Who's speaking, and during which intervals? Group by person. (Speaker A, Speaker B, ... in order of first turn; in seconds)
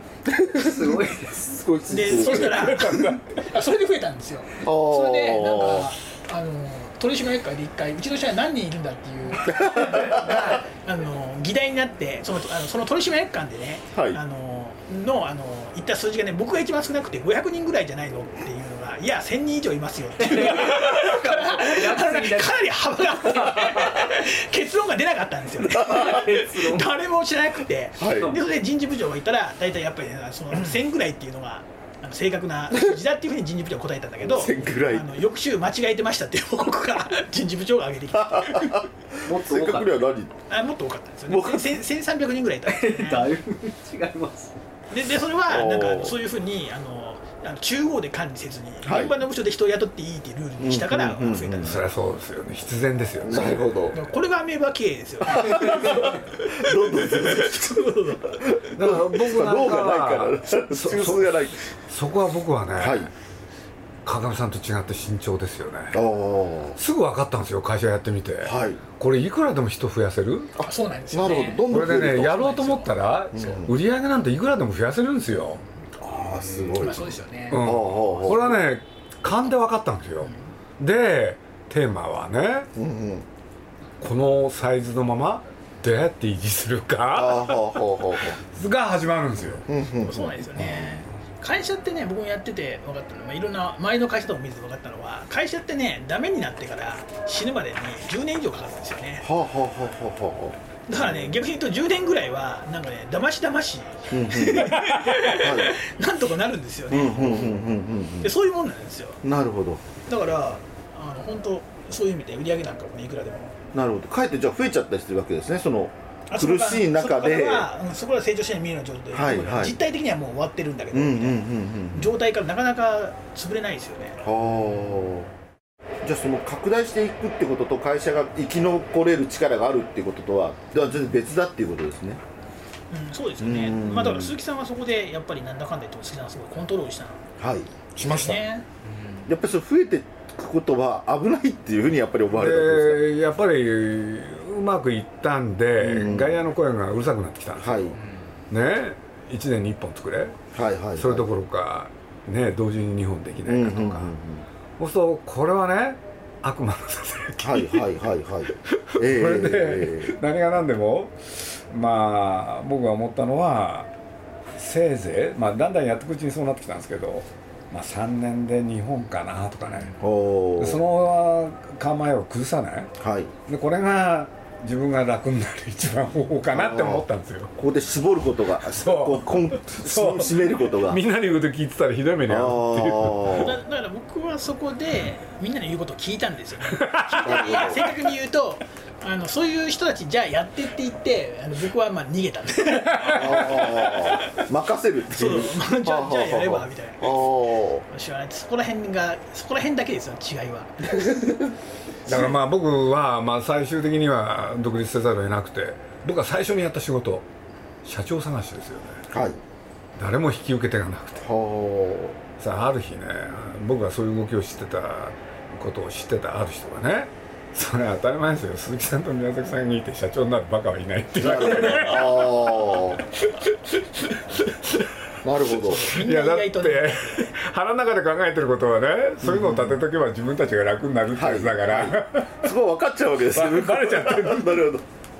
Speaker A: 0.2-2.8, 4.6-5.9, 9.4-10.6, 13.9-14.2, 25.7-26.2, 28.0-28.3, 34.2-35.1, 38.1-40.3, 41.3-41.7, 45.5-46.2, 48.8-49.1, 50.6-51.8, 53.2-54.0, 55.2-57.7, 58.2-61.6, 62.8-63.1, 65.9-66.8, 68.4-68.8, 70.6-72.4, 73.3-73.7, 76.0-78.6, 82.7-83.2, 87.1-88.4, 89.7-91.0, 99.2-100.6, 104.1-105.8, 106.9-108.3, 109.2-109.8, 113.7-117.7, 119.1-119.8, 120.9-122.1, 124.2-125.3, 126.0-132.2, 133.4-134.3, 137.4-137.8, 139.2-143.0, 145.8-146.4, 147.6-147.9, 150.5-151.3, 153.5-154.4, 157.4-160.1, 170.0-170.8, 173.0-173.3, 176.5-181.0, 182.3-183.5, 187.2-187.8, 193.1-197.8, 200.9-201.5, 209.1-209.4, 211.2-212.2, 221.2-223.0, 225.2-225.8, 229.2-229.8, 231.1-234.8
Speaker B: 0.5-1.4, 20.2-24.1, 25.8-26.9, 39.2-40.1, 42.6-44.6, 76.4-76.8, 138.8-139.3
Speaker C: 1.9-38.9, 40.5-43.3, 44.9-51.8, 53.9-58.5, 70.6-73.6, 76.7-78.3, 80.2-80.5, 90.0-99.3, 100.9-107.6, 108.2-109.2, 110.1-113.6, 116.3-124.2, 132.9-137.2, 138.0-138.7, 183.4-194.3, 195.1-197.3, 197.9-201.1, 225.6-227.3
Speaker D: 2.4-3.4, 51.6-53.6, 58.8-63.1, 64.0-66.0, 66.8-70.5, 71.7-75.6, 77.5-82.7, 84.0-89.7, 137.9-138.4, 142.3-148.0, 148.5-150.4, 150.9-154.1, 154.8-157.9, 158.5-163.9, 164.6-169.9, 170.6-172.9, 173.4-177.5, 178.6-183.5, 186.7-187.5, 192.8-193.3, 202.1-207.2, 207.8-209.0, 210.0-211.3, 212.3-224.9, 225.5-232.4, 233.3-234.6